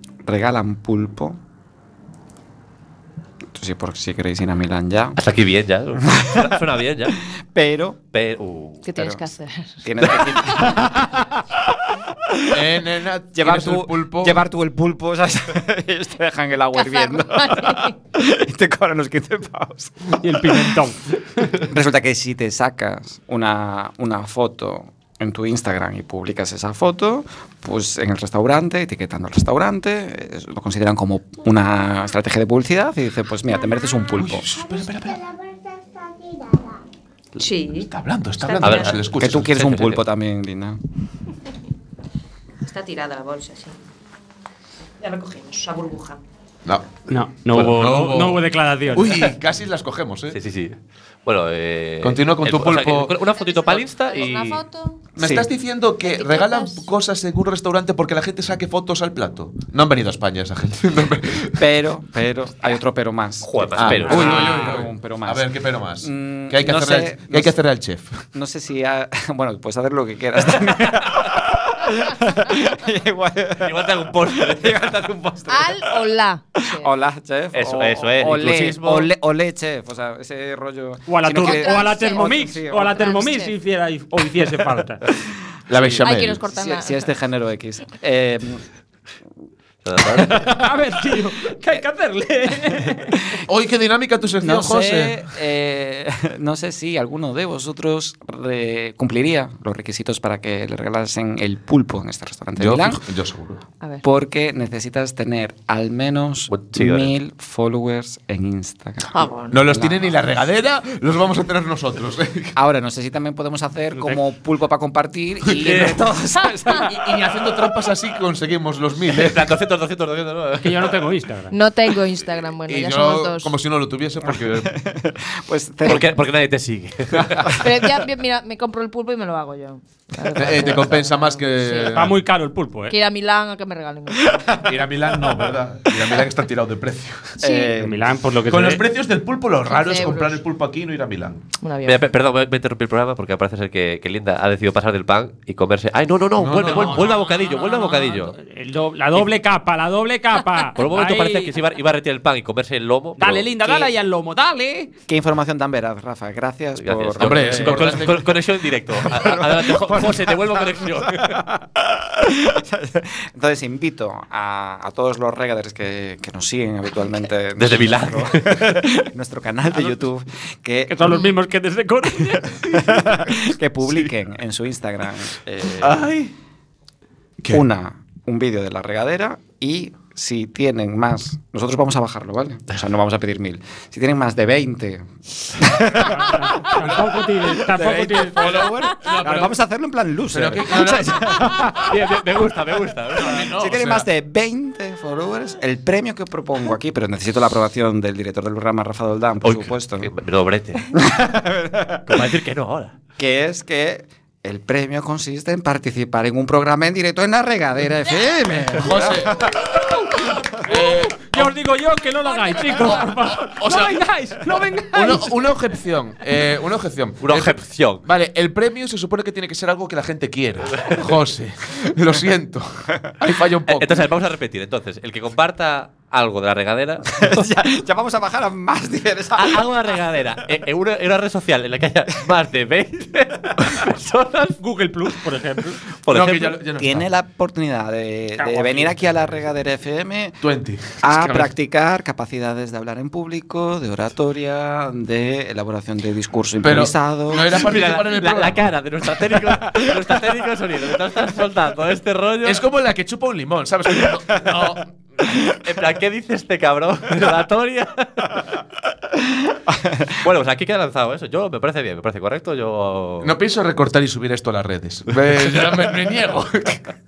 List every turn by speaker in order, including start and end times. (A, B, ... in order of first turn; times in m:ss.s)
0:00.2-0:01.4 A
0:03.5-0:05.2 A
0:05.2-0:07.2 B
0:06.0-0:08.0 A
0:08.1-0:08.8 B
0:08.8-0:10.9 C
0:09.8-0:11.3 A
0:12.1-0:12.8 A
0:12.5-0:14.4 D
0:13.3-0:20.8 A
0:16.7-0:17.9 C
0:20.1-0:21.6 E
0:21.6-0:34.5 A
0:34.2-0:35.3 D
0:37.4-0:37.9 C
0:37.9-0:39.5 D
0:38.4-0:39.0 C
0:38.6-0:40.0 B
0:39.2-0:40.8 A
0:42.6-0:43.8 C
0:45.0-0:46.2 C
0:46.6-0:50.4 D
0:47.1-0:49.2 E
0:50.3-0:54.6 B
0:52.0-0:53.1 D
0:53.3-0:55.0 C
0:55.2-0:55.5 A
0:55.2-1:01.6 D
0:56.0-0:56.9 C
1:01.6-1:05.5 A
1:03.4-1:04.8 B
1:03.8-1:08.2 D
1:06.0-1:07.6 A
1:08.3-1:15.9 A
1:13.6-1:15.3 B
1:15.5-1:16.9 C
1:16.6-1:23.1 A
1:17.5-1:19.1 B
1:21.1-1:25.0 E
1:21.4-1:23.5 C
1:25.7-1:26.4 D
1:25.8-1:27.1 C
1:26.5-1:28.6 A
1:29.8-1:30.5 B
1:30.1-1:33.3 E
1:33.4-1:35.2 D
1:34.4-1:43.0 A
1:42.6-1:43.6 D
1:44.0-1:50.1 A
1:46.5-1:47.1 B
1:49.1-1:49.6 C
1:49.5-1:52.5 D
1:52.6-1:57.1 A
1:53.9-1:54.2 E
1:55.4-1:56.0 D
1:55.6-1:55.9 E
1:56.4-1:56.8 C
1:56.8-1:59.4 D
1:59.1-2:01.0 B
2:00.6-2:01.5 E
2:01.5-2:03.5 C
2:02.7-2:04.7 D
2:04.2-2:06.2 A
2:05.8-2:07.6 B
2:07.2-2:07.5 D
2:07.5-2:11.9 C
2:10.4-2:12.2 D
2:11.9-2:12.9 E
2:12.9-2:14.6 C
2:14.6-2:17.4 D
2:17.4-2:18.1 A
2:17.4-2:17.7 C
2:17.8-2:18.8 E
2:18.5-2:21.4 D
2:19.6-2:20.4 C
2:21.6-2:22.0 C
2:21.8-2:28.4 B
2:26.4-2:27.2 D
2:26.6-2:31.5 E
2:30.8-2:33.5 B
2:33.2-2:34.9 E
2:35.1-2:38.1 A
2:36.8-2:41.4 B
2:37.2-2:38.3 D
2:38.9-2:51.3 A
2:47.6-2:49.0 B
2:50.9-2:53.2 E
2:52.7-2:56.1 A
2:55.8-2:56.3 D
2:57.5-3:12.1 A
3:06.2-3:08.6 E
3:06.8-3:07.2 D
3:08.3-3:09.5 D
3:10.3-3:11.5 D
3:11.6-3:13.5 B
3:13.1-3:14.0 D
3:13.2-3:20.1 A
3:19.4-3:20.9 B
3:20.9-3:22.3 A
3:22.1-3:22.9 B
3:23.2-3:29.5 A
3:28.7-3:29.6 D
3:30.6-3:31.5 D
3:30.8-3:35.4 E
3:32.5-3:33.0 C
3:33.6-3:34.0 D
3:34.9-3:44.0 D
3:37.2-3:38.0 B
3:43.7-3:47.4 B
3:47.1-3:49.8 A
3:49.3-3:54.6 B
3:54.6-3:55.8 E
3:56.0-3:56.6 B
3:56.1-3:57.0 D
3:56.8-4:00.4 A
3:58.4-3:59.1 E
4:00.4-4:01.5 D
4:01.0-4:07.7 A
4:06.6-4:08.6 D
4:07.5-4:12.6 B
4:12.4-4:14.9 D
4:15.2-4:15.6 A
4:15.5-4:18.6 B
4:19.7-4:20.1 A
4:20.1-4:23.4 B
4:23.2-4:26.8 D